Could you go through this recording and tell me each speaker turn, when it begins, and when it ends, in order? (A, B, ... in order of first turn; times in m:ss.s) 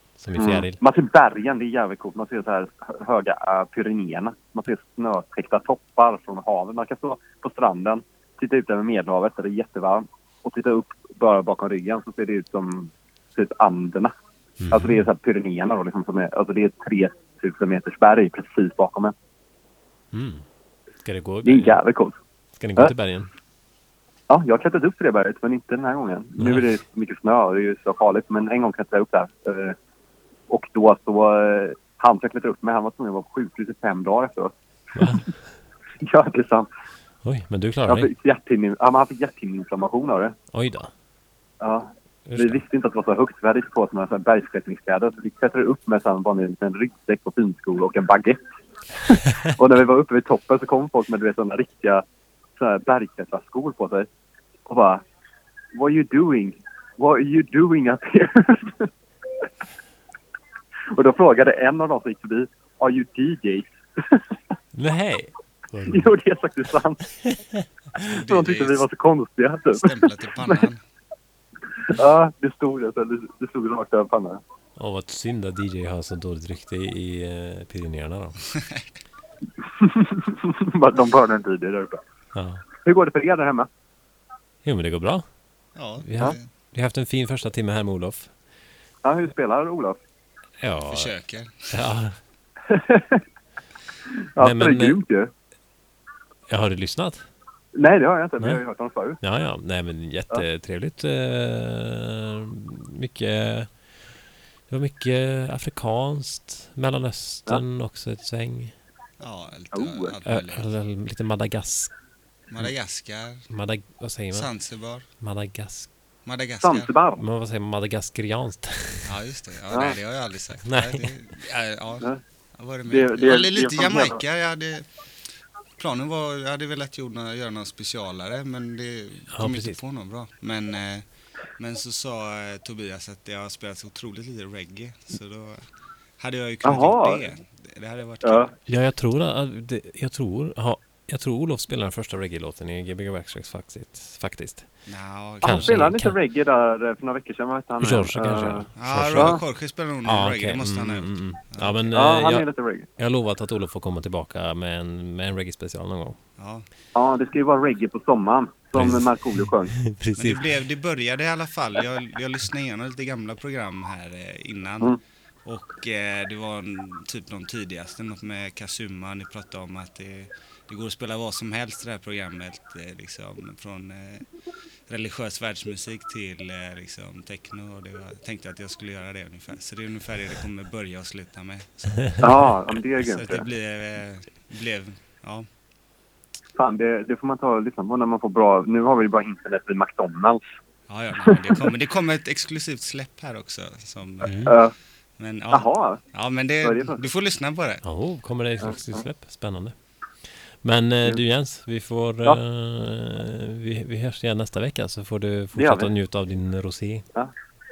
0:00.2-0:00.8 A
0:00.4-0:14.1 B
0:14.6-0:15.0 A
0:14.7-0:19.1 B
0:20.1-0:20.4 A
0:21.0-0:21.8 A
0:21.4-0:22.2 B
0:22.6-0:23.3 A
0:24.3-0:29.7 B
0:26.4-0:26.7 A
0:30.5-0:34.5 B
0:34.9-0:35.4 A
0:36.0-0:36.7 B
0:37.2-0:38.1 A
0:37.9-0:40.3 B
0:40.5-0:40.9 A
0:41.6-0:48.4 B
0:42.3-0:42.6 A
0:49.5-0:52.0 B
0:52.6-0:54.1 B
0:54.6-0:55.0 B
0:55.7-0:58.9 B
1:00.9-1:04.2 B
1:04.7-1:06.1 A
1:05.9-1:07.2 B
1:08.1-1:08.8 C
1:08.1-1:10.6 B
1:09.8-1:10.8 C
1:11.8-1:14.4 B
1:14.8-1:18.4 A
1:18.4-1:18.9 C
1:19.6-1:22.0 B
1:22.3-1:22.6 A
1:22.8-1:23.7 B
1:24.6-1:25.3 A
1:25.7-1:26.5 C
1:26.0-1:28.3 A
1:29.0-1:30.0 B
1:30.6-1:31.1 A
1:30.9-1:31.7 C
1:31.7-1:32.2 A
1:32.7-1:33.2 B
1:34.4-1:35.3 B
1:34.4-1:35.0 A
1:36.5-1:37.3 A
1:37.7-1:39.2 B
1:39.2-1:43.8 A
1:44.7-1:48.7 A
1:49.2-1:50.7 C
1:49.7-1:50.1 B
1:50.2-1:51.9 A
1:52.5-1:53.4 C
1:53.5-1:54.5 A
1:54.3-1:55.0 C
1:55.2-1:55.9 A
1:56.2-1:56.9 C
1:56.6-1:57.2 B
1:57.2-1:59.1 A
1:59.0-2:04.9 C
1:59.7-2:00.0 B
2:00.6-2:01.1 A
2:02.9-2:04.2 B
2:05.8-2:11.0 C
2:09.3-2:09.8 A
2:11.6-2:15.6 C
2:16.2-2:18.4 C
2:16.6-2:17.2 B
2:18.2-2:18.5 B
2:18.7-2:24.7 A
2:24.8-2:25.9 C
2:25.4-2:26.2 A
2:25.4-2:29.4 B
2:27.8-2:29.4 A
2:28.8-2:31.9 C
2:30.0-2:36.2 A
2:31.9-2:32.9 B
2:36.4-2:36.6 C
2:36.9-2:39.8 B
2:38.7-2:40.4 A
2:40.1-2:54.2 C
2:54.9-3:05.4 C
3:02.2-3:03.4 B
3:06.6-3:10.4 B
3:10.9-3:14.6 C
3:11.3-3:11.6 B
3:14.2-3:14.5 A
3:14.5-3:14.7 B
3:15.2-3:17.8 C
3:15.5-3:16.0 B
3:16.6-3:17.0 B
3:17.8-3:19.7 A
3:18.7-3:19.0 B
3:20.3-3:27.0 A
3:25.5-3:25.9 B